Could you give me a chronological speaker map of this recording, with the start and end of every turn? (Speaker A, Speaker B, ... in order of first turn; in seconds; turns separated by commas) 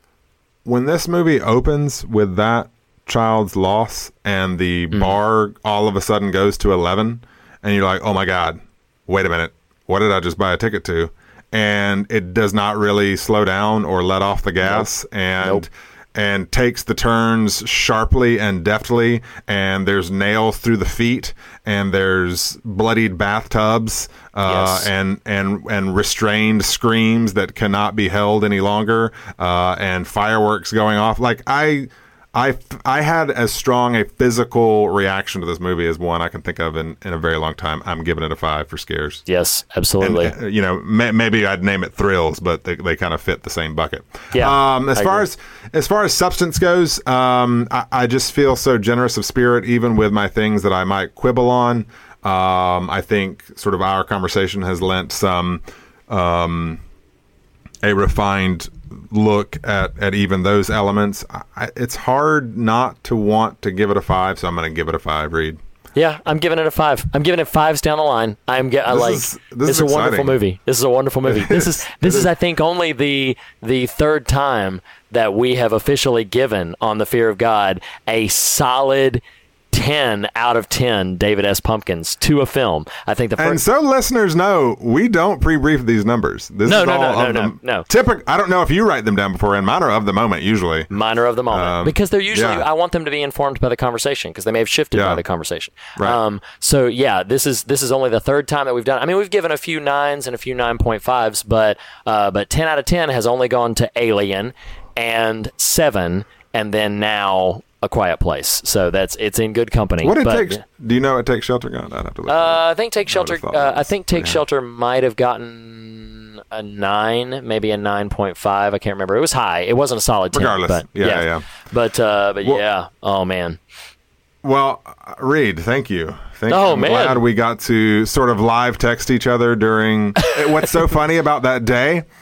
Speaker A: 0.6-39.2, Speaker B: 24.4-24.9, Speaker B: 39.3-40.3, Speaker A: 40.0-56.8, Speaker B: 44.3-45.2, Speaker A: 57.8-65.6, Speaker B: 66.0-83.6, Speaker A: 68.9-70.4, Speaker A: 71.2-72.3, Speaker A: 83.4-90.9, Speaker B: 86.7-87.9, Speaker B: 90.9-110.6, Speaker A: 91.5-92.6, Speaker A: 94.9-95.2, Speaker A: 110.0-114.4, Speaker B: 112.3-123.6, Speaker A: 120.3-121.5, Speaker A: 124.4-132.1, Speaker B: 126.5-127.2